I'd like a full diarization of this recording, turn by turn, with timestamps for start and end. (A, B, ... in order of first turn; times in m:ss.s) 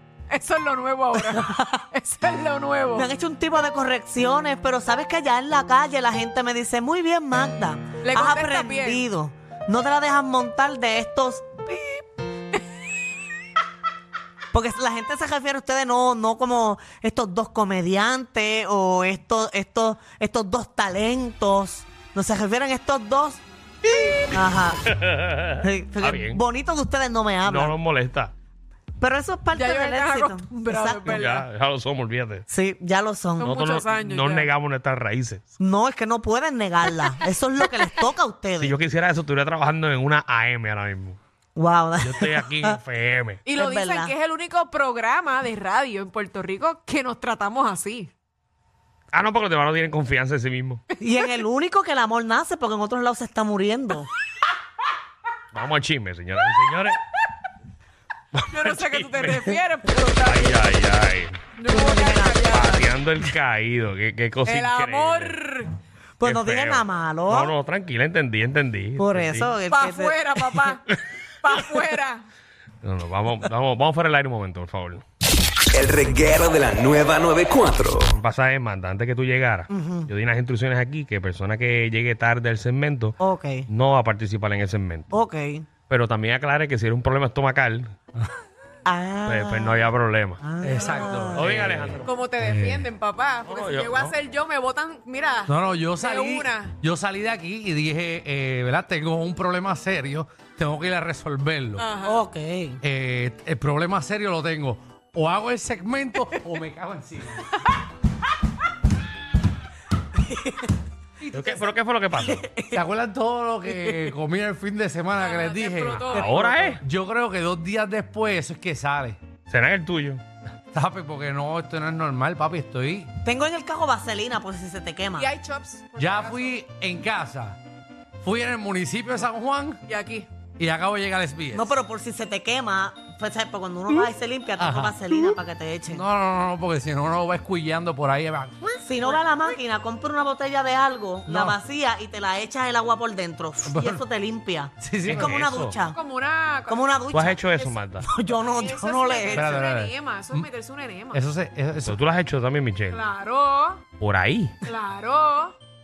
0:00.3-0:03.1 A
0:01.2-0:01.8 B
0:02.9-0:12.1 B
0:08.0-0:09.1 A
0:14.5-0:23.4 B
0:24.3-0:24.8 B
0:24.9-0:26.4 C
0:25.6-0:27.8 B
0:27.4-0:28.3 C
0:29.0-0:31.2 B
0:29.5-0:31.5 A
0:31.1-0:32.5 C
0:32.5-0:33.5 B
0:33.4-0:34.5 A
0:33.4-0:35.5 C
0:35.6-0:38.8 B
0:38.6-0:41.2 C
0:41.6-0:42.8 B
0:42.0-0:43.4 C
0:43.4-0:48.1 A
0:43.6-0:44.1 B
0:49.1-0:50.8 C
0:51.0-0:54.1 B
0:55.5-0:57.0 C
0:58.3-0:59.5 C
0:58.5-1:00.7 A
1:00.2-1:01.5 C
1:01.6-1:02.9 A
1:01.7-1:02.5 B
1:02.5-1:05.4 C
1:04.4-1:05.8 A
1:06.2-1:07.5 B
1:06.2-1:09.6 C
1:09.0-1:10.2 B
1:09.7-1:12.2 A
1:12.8-1:15.0 C
1:15.7-1:18.2 D
1:18.1-1:23.2 C
1:19.7-1:20.1 B
1:23.2-1:23.7 B
1:23.7-1:25.1 C
1:25.1-1:25.7 B
1:25.9-1:27.9 C
1:28.9-1:29.9 B
1:29.3-1:30.4 C
1:30.4-1:31.6 B
1:30.6-1:32.9 E
1:31.3-1:32.1 C
1:32.0-1:36.8 A
1:33.5-1:34.2 C
1:35.5-1:41.9 E
1:41.8-1:42.3 A
1:42.0-1:42.8 B
1:42.8-1:47.5 E
1:50.3-1:50.7 B
1:51.2-1:51.8 A
1:51.3-1:52.4 C
1:52.3-1:52.7 B
1:52.7-1:59.2 E
1:53.8-1:54.1 A
1:55.1-1:56.8 A
1:55.9-1:56.8 C
1:59.5-2:00.2 C
2:00.7-2:03.1 E
2:03.2-2:05.3 B
2:05.1-2:06.6 A
2:06.0-2:07.6 E
2:08.2-2:09.8 E
2:09.9-2:10.3 A
2:10.6-2:11.7 E
2:11.5-2:16.0 B
2:14.6-2:18.7 E
2:18.8-2:26.0 B
2:21.3-2:21.6 E
2:23.7-2:24.0 E
2:24.8-2:25.4 E
2:25.0-2:25.8 C
2:25.9-2:27.8 A
2:26.7-2:27.4 B
2:27.1-2:28.1 C
2:28.0-2:29.6 B
2:28.4-2:31.2 A
2:29.3-2:30.5 E
2:31.1-2:32.0 E
2:31.8-2:33.0 C
2:32.9-2:33.9 A
2:34.0-2:34.6 C
2:34.6-2:35.6 A